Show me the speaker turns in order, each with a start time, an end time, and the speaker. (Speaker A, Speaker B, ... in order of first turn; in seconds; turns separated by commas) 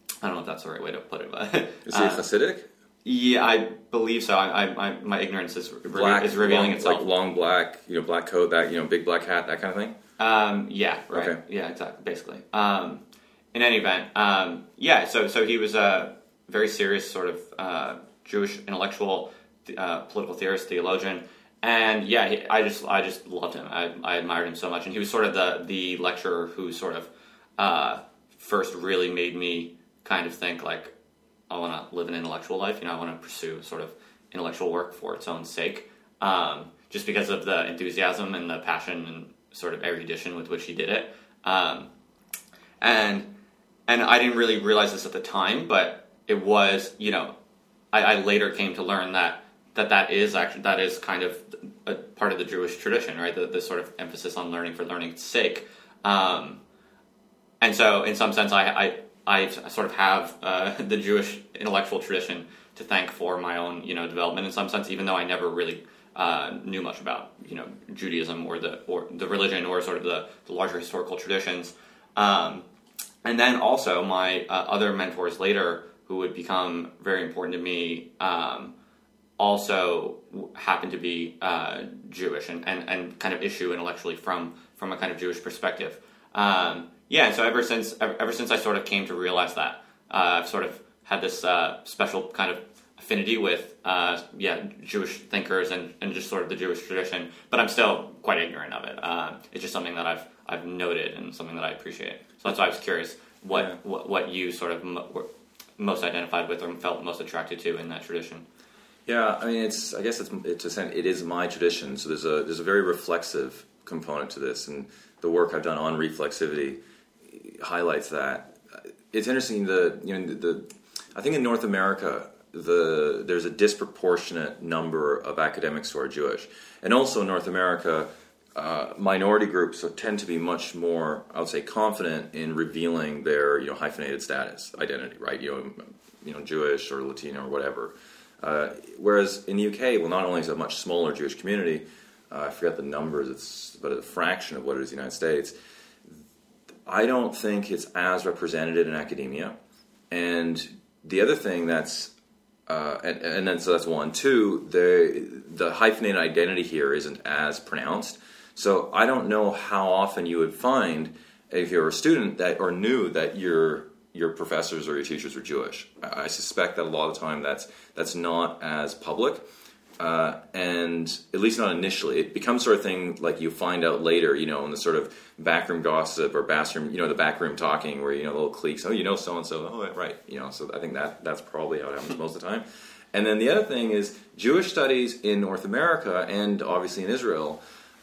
Speaker A: 0.2-2.2, Speaker B: 1.9-2.7, Speaker A: 3.0-7.0, Speaker B: 5.9-10.0, Speaker A: 10.2-13.0, Speaker B: 11.1-11.4, Speaker A: 13.5-30.9, Speaker A: 31.5-41.9, Speaker A: 42.8-43.3, Speaker A: 43.9-47.3, Speaker A: 47.9-56.6, Speaker A: 57.6-72.7, Speaker A: 73.2-78.8, Speaker A: 79.4-105.3, Speaker B: 103.5-103.8, Speaker A: 105.8-108.4, Speaker B: 109.1-116.8, Speaker B: 117.3-118.6, Speaker B: 119.1-145.6, Speaker B: 146.9-149.6, Speaker B: 150.1-152.1, Speaker B: 152.7-169.4, Speaker B: 170.0-187.6